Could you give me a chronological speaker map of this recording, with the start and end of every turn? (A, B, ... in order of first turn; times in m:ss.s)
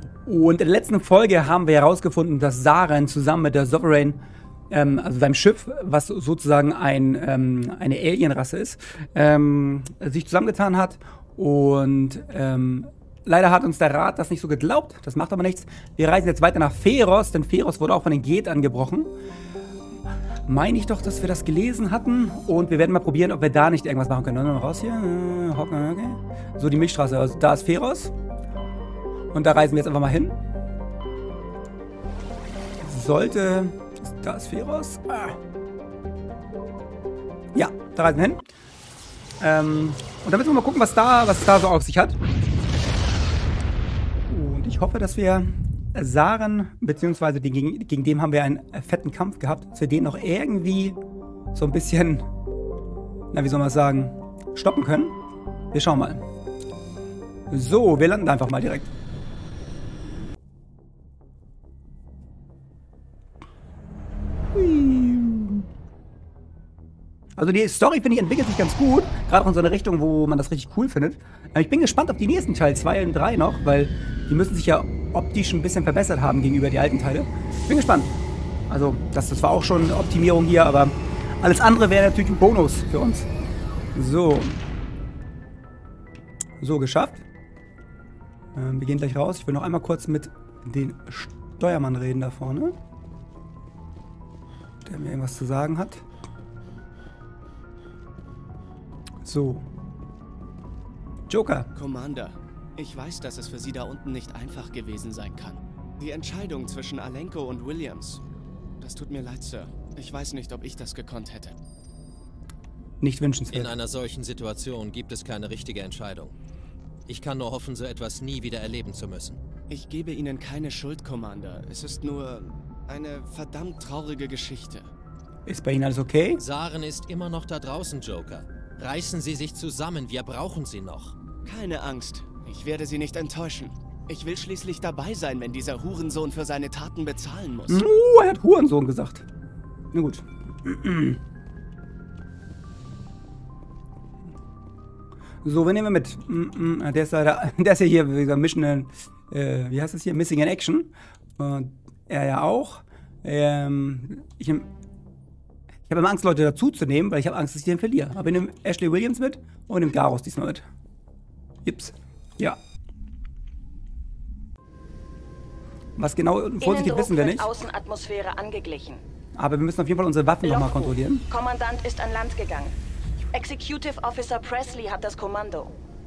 0:00.2-0:19.1 A
0:20.5-0:28.1 A
0:29.3-0:30.4 A
0:32.8-0:35.4 A
0:37.5-0:38.5 A
0:39.4-0:42.2 A
0:44.3-0:51.0 A
0:51.5-0:52.3 A
0:53.3-0:55.2 A
0:55.7-0:56.2 A
0:57.5-0:58.9 A
1:04.5-1:05.7 A
1:07.4-1:18.2 A
1:18.7-1:23.3 A
1:24.0-1:24.6 A
1:26.6-1:27.2 A
1:28.6-1:32.8 A
1:34.8-1:36.0 A
1:39.2-1:39.6 A
1:41.3-1:41.7 A
1:41.8-1:48.2 B
1:48.8-1:51.6 B
1:53.0-1:53.7 A
1:53.5-1:56.4 C
1:57.1-1:59.4 C
1:59.7-2:04.9 B
2:05.5-2:06.4 A
2:06.4-2:11.2 C
2:11.4-2:17.8 B
2:17.7-2:19.3 A
2:19.9-2:21.2 A
2:25.4-2:34.7 A
2:35.9-2:40.7 A
2:41.6-2:42.6 A
2:46.0-2:47.5 A
2:46.6-2:49.0 D
2:49.4-2:51.2 A
2:50.4-2:52.7 D
2:53.3-2:55.8 D